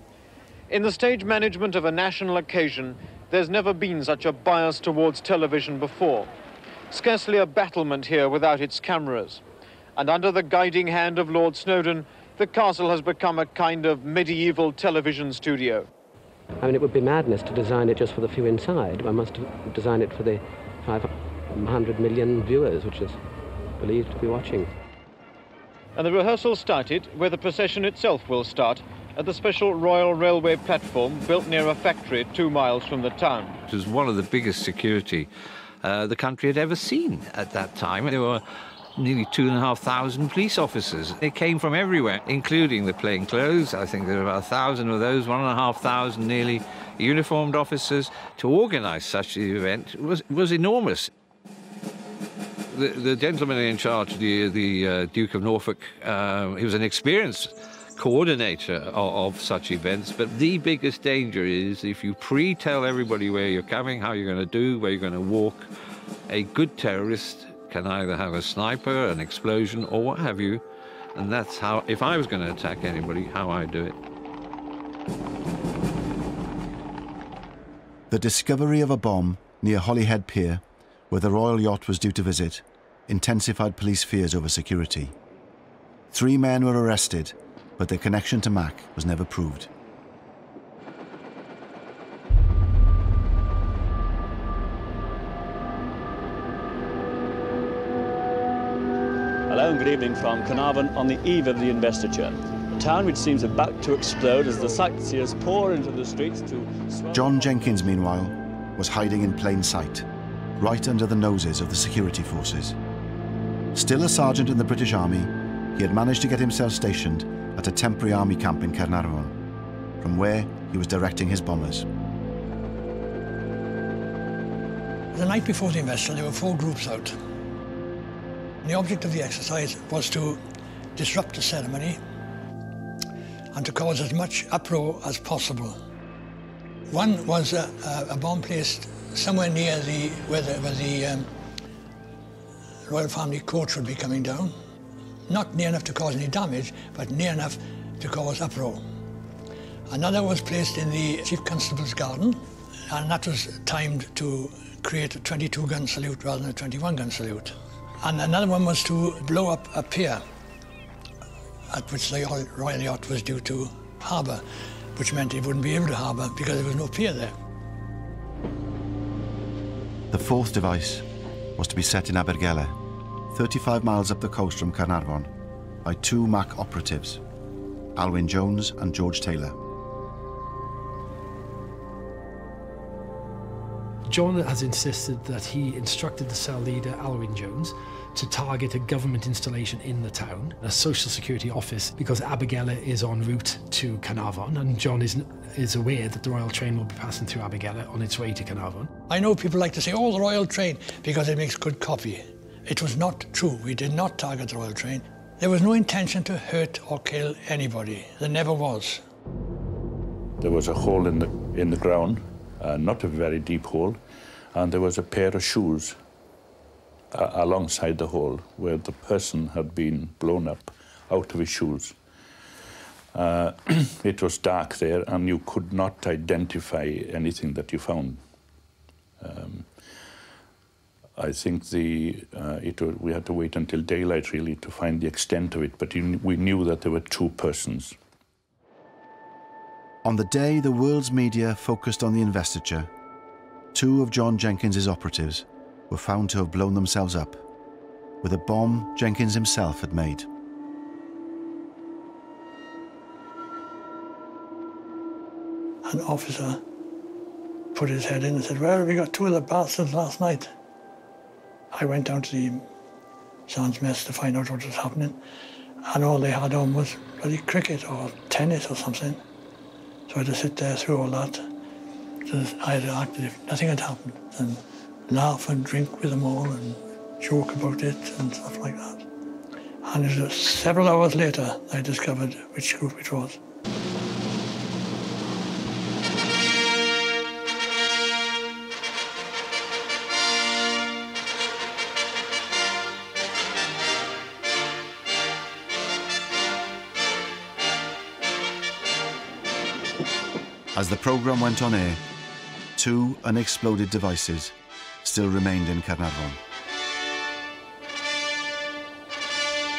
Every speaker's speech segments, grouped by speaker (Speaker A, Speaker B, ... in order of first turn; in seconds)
Speaker A: 0.7-6.3, 6.9-9.4, 9.9-15.9, 25.9-33.6
Speaker B: 16.6-23.2, 23.8-24.7
Speaker C: 33.7-35.3, 35.8-38.4, 39.0-51.1, 52.7-65.7, 66.3-70.6, 71.1-74.0
Speaker D: 78.1-85.1, 86.1-89.7, 107.1-110.1, 110.6-112.8, 113.7-119.3, 120.0-121.8, 170.1-171.0, 171.6-172.8, 173.3-175.3, 175.8-177.2, 177.9-179.6, 240.0-242.9, 243.7-247.4, 248.2-250.3, 300.7-302.0, 302.8-306.4
Speaker E: 99.5-107.4
Speaker F: 125.1-127.1, 128.6-130.4, 130.9-132.0, 133.5-135.8, 136.9-141.3, 142.9-144.5, 145.3-148.8, 149.9-160.2, 161.7-164.4, 164.9-167.3, 199.1-209.0, 255.8-256.6, 257.7-260.5, 261.7-262.6, 263.5-265.2, 265.9-269.2, 270.1-271.4, 272.2-279.0, 279.8-283.4
Speaker G: 184.1-198.9
Speaker H: 210.4-214.0, 214.5-216.0, 217.1-222.0, 223.1-228.2, 229.2-229.8, 231.2-237.9